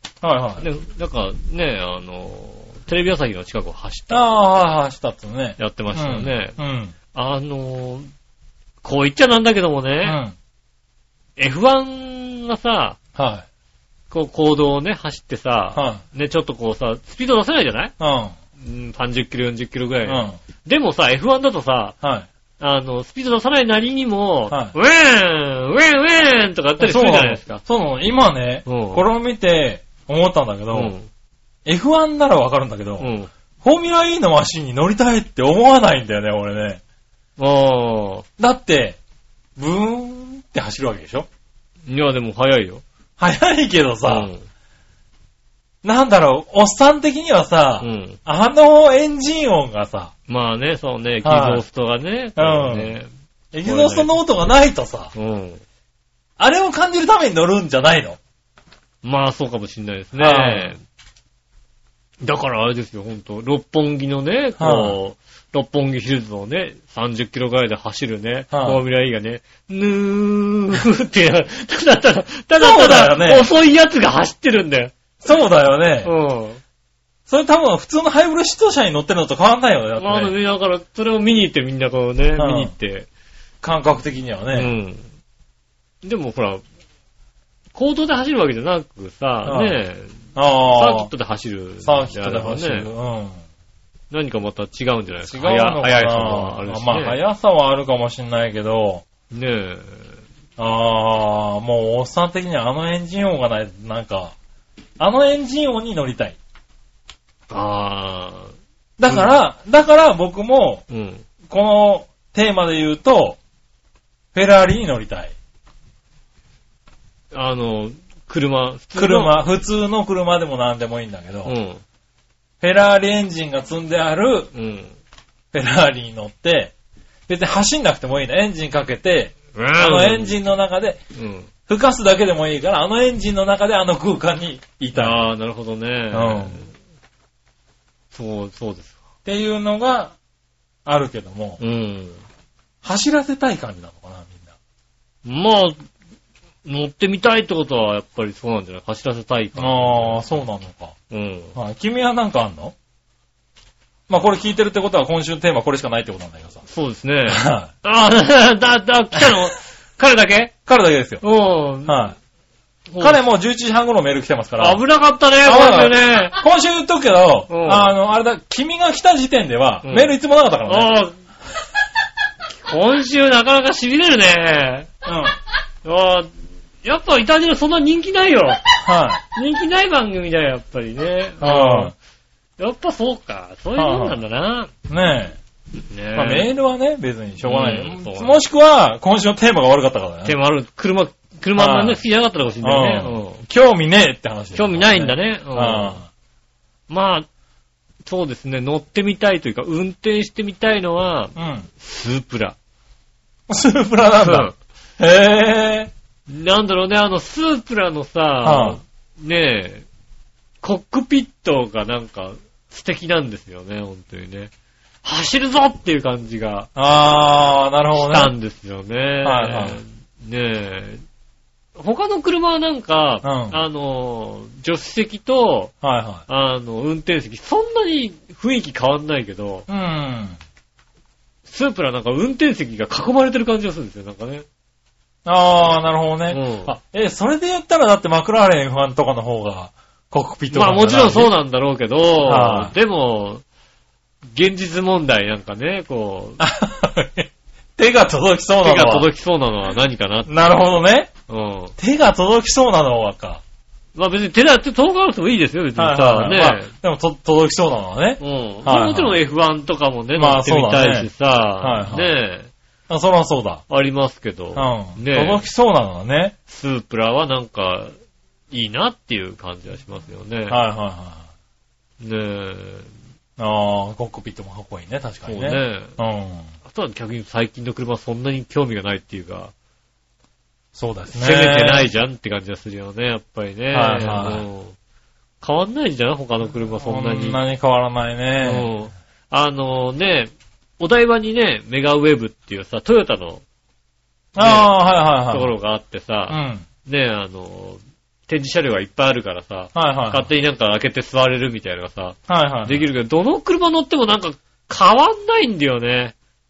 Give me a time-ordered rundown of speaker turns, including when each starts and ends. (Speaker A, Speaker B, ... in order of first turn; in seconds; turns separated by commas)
Speaker A: 0.2-0.7, Speaker B: 0.6-4.2, Speaker A: 4.1-7.0, Speaker B: 5.6-6.6, Speaker B: 7.1-8.1, Speaker B: 8.8-10.2, Speaker A: 10.0-10.3, Speaker B: 11.4-13.0, Speaker A: 13.2-13.4, Speaker B: 14.1-17.9, Speaker A: 15.8-16.0, Speaker A: 18.0-18.3, Speaker B: 18.6-22.0, Speaker A: 20.1-20.4, Speaker A: 22.0-22.3, Speaker B: 22.6-27.6, Speaker A: 26.8-30.9, Speaker B: 28.7-29.0, Speaker B: 30.7-31.1, Speaker A: 31.6-33.1, Speaker B: 33.0-33.3, Speaker A: 33.6-36.8, Speaker B: 37.4-38.3, Speaker A: 38.4-39.0, Speaker A: 39.6-41.3, Speaker B: 41.9-42.8, Speaker A: 43.2-44.3, Speaker B: 44.0-44.5, Speaker A: 45.8-50.1, Speaker B: 47.8-48.2, Speaker B: 50.3-53.1, Speaker A: 51.2-51.6, Speaker A: 52.4-52.9, Speaker A: 53.5-55.1, Speaker B: 53.6-54.1, Speaker B: 55.1-55.6, Speaker A: 56.4-58.2, Speaker B: 59.0-60.8, Speaker A: 60.2-60.7, Speaker B: 62.2-75.0, Speaker A: 64.6-65.0, Speaker A: 68.5-68.8, Speaker A: 72.6-73.5, Speaker A: 75.2-76.1, Speaker B: 76.0-76.6, Speaker A: 77.3-80.3, Speaker B: 80.0-83.1, Speaker A: 82.4-82.7, Speaker A: 83.6-84.7, Speaker B: 84.5-85.1, Speaker B: 86.0-86.6, Speaker B: 87.7-92.9, Speaker A: 89.5-89.8, Speaker A: 90.3-91.1, Speaker A: 91.8-93.4, Speaker B: 94.1-97.2, Speaker A: 95.2-99.0, Speaker B: 99.3-100.2, Speaker A: 100.6-104.3, Speaker A: 105.0-106.4, Speaker B: 107.5-108.5, Speaker A: 109.0-110.8, Speaker B: 109.1-109.4, Speaker B: 110.9-111.2, Speaker A: 111.5-113.4, Speaker A: 114.3-115.3, Speaker B: 117.3-119.4, Speaker A: 119.0-121.5, Speaker B: 121.5-121.8, Speaker A: 122.6-124.5, Speaker B: 124.5-125.0, Speaker A: 125.5-126.7, Speaker A: 127.3-131.0, Speaker B: 129.6-130.4, Speaker B: 131.2-131.5, Speaker A: 131.7-135.3, Speaker B: 134.9-136.7, Speaker A: 136.1-136.6, Speaker B: 138.1-139.0, Speaker A: 139.2-140.2, Speaker A: 140.8-141.6, Speaker B: 141.6-142.2, Speaker A: 142.8-144.5, Speaker B: 145.2-145.8, Speaker B: 146.7-150.3, Speaker A: 149.6-150.9, Speaker B: 151.1-151.6, Speaker A: 151.6-152.8, Speaker A: 154.1-156.6, Speaker B: 156.7-160.5, Speaker A: 157.3-157.7, Speaker A: 160.7-161.2, Speaker B: 161.2-162.0, Speaker A: 161.9-162.2, Speaker B: 162.9-163.2, Speaker A: 163.0-164.8, Speaker B: 164.6-166.4, Speaker A: 165.4-171.0, Speaker B: 167.5-167.9, Speaker B: 169.8-170.1, Speaker B: 170.7-171.2, Speaker B: 172.6-174.9, Speaker A: 175.1-175.4, Speaker B: 175.8-176.3, Speaker B: 176.8-178.6, Speaker A: 178.8-179.2, Speaker B: 179.3-181.9, Speaker A: 181.4-181.9, Speaker B: 182.6-184.7, Speaker A: 183.8-184.2, Speaker A: 184.9-185.4, Speaker B: 185.9-186.5, Speaker A: 186.2-190.4, Speaker B: 187.4-188.4, Speaker B: 190.2-193.4, Speaker A: 191.6-192.0, Speaker A: 192.6-196.1, Speaker B: 194.6-196.0, Speaker B: 196.9-197.3, Speaker B: 198.1-202.6, Speaker A: 201.4-201.7, Speaker A: 203.5-205.9, Speaker B: 204.2-204.6, Speaker B: 206.3-209.9, Speaker A: 208.4-208.8, Speaker B: 210.6-214.5, Speaker B: 215.0-216.7, Speaker A: 216.8-218.3, Speaker B: 217.9-221.0, Speaker A: 219.2-219.8, Speaker B: 221.8-225.7, Speaker A: 223.2-223.6, Speaker A: 225.8-226.2, Speaker B: 226.3-229.7, Speaker A: 229.7-230.4, Speaker B: 231.5-234.5, Speaker A: 235.2-241.3, Speaker B: 236.3-236.7, Speaker B: 240.5-243.4, Speaker A: 242.2-242.7, Speaker B: 244.3-246.4, Speaker A: 246.4-249.1, Speaker B: 248.6-250.3, Speaker A: 250.3-251.1, Speaker B: 251.3-251.8, Speaker A: 251.8-253.4, Speaker B: 253.9-256.7, Speaker A: 255.8-259.2, Speaker B: 258.2-262.5, Speaker A: 260.2-261.1, Speaker A: 261.6-262.1, Speaker A: 262.9-263.6, Speaker B: 263.7-265.4, Speaker A: 264.6-266.4, Speaker B: 266.5-267.9, Speaker B: 268.5-270.6, Speaker A: 270.5-271.3, Speaker B: 272.0-272.9, Speaker A: 273.4-276.5, Speaker B: 275.3-276.0, Speaker B: 276.6-279.5, Speaker A: 280.8-281.9, Speaker B: 281.1-284.8, Speaker A: 283.7-284.5, Speaker B: 285.4-287.4, Speaker A: 286.8-288.7, Speaker B: 288.4-293.4, Speaker A: 294.4-295.5, Speaker B: 294.4-306.1, Speaker A: 296.3-296.7, Speaker A: 299.8-300.3, Speaker A: 302.3-302.9